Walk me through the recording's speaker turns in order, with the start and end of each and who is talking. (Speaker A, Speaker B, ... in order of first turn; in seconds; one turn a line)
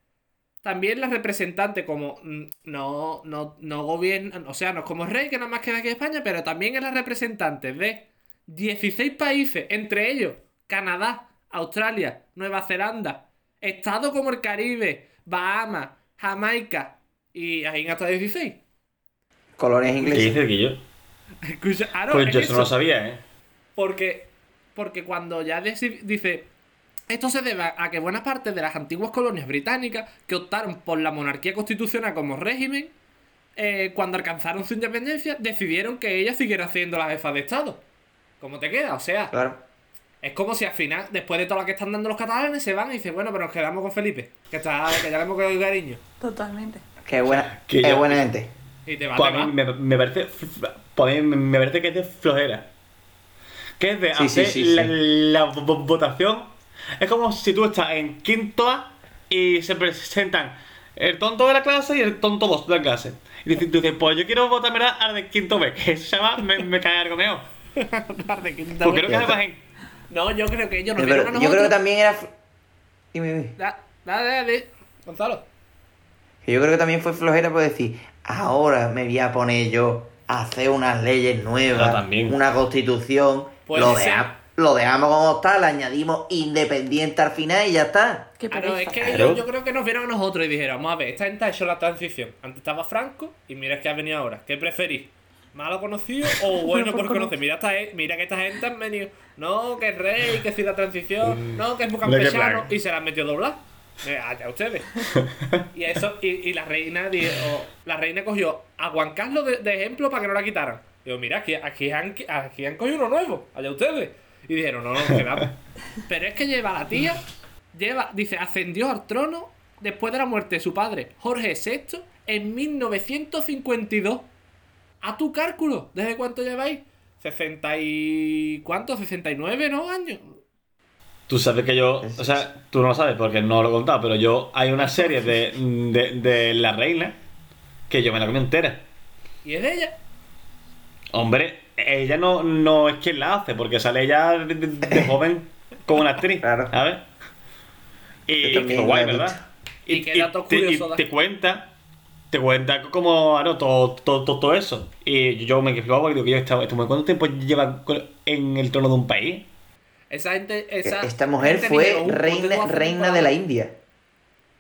Speaker A: 0.6-18.6
Speaker B: 19.6-20.4
Speaker C: 20.0-20.8
Speaker A: 21.4-22.7
Speaker C: 22.1-23.2
Speaker A: 23.8-26.5
Speaker A: 27.1-32.9
Speaker A: 33.6-37.8
Speaker A: 38.4-39.3
Speaker B: 39.3-39.6
Speaker A: 40.2-46.0
Speaker D: 46.2-46.8
Speaker B: 47.0-48.5
Speaker C: 47.3-48.3
Speaker A: 48.9-49.5
Speaker C: 49.2-52.7
Speaker C: 53.8-67.5
Speaker B: 54.1-54.9
Speaker A: 67.8-69.4
Speaker C: 68.8-69.6
Speaker B: 69.1-69.4
Speaker A: 70.1-71.8
Speaker B: 71.0-72.3
Speaker B: 73.1-73.6
Speaker A: 73.6-75.5
Speaker B: 76.5-88.3
Speaker C: 81.7-82.4
Speaker A: 83.7-84.3
Speaker D: 88.4-89.3
Speaker A: 88.5-105.1
Speaker C: 89.0-89.4
Speaker D: 96.5-97.3
Speaker C: 101.2-102.7
Speaker C: 105.2-105.6
Speaker A: 105.7-124.3
Speaker A: 125.0-130.4
Speaker C: 131.3-137.2
Speaker B: 132.0-132.5
Speaker C: 137.9-138.8
Speaker A: 139.4-140.0
Speaker C: 141.1-147.1
Speaker B: 146.4-146.7
Speaker C: 148.3-151.7
Speaker B: 148.4-149.4
Speaker A: 149.9-151.0
Speaker C: 152.3-159.5
Speaker A: 160.1-163.3
Speaker B: 160.8-163.8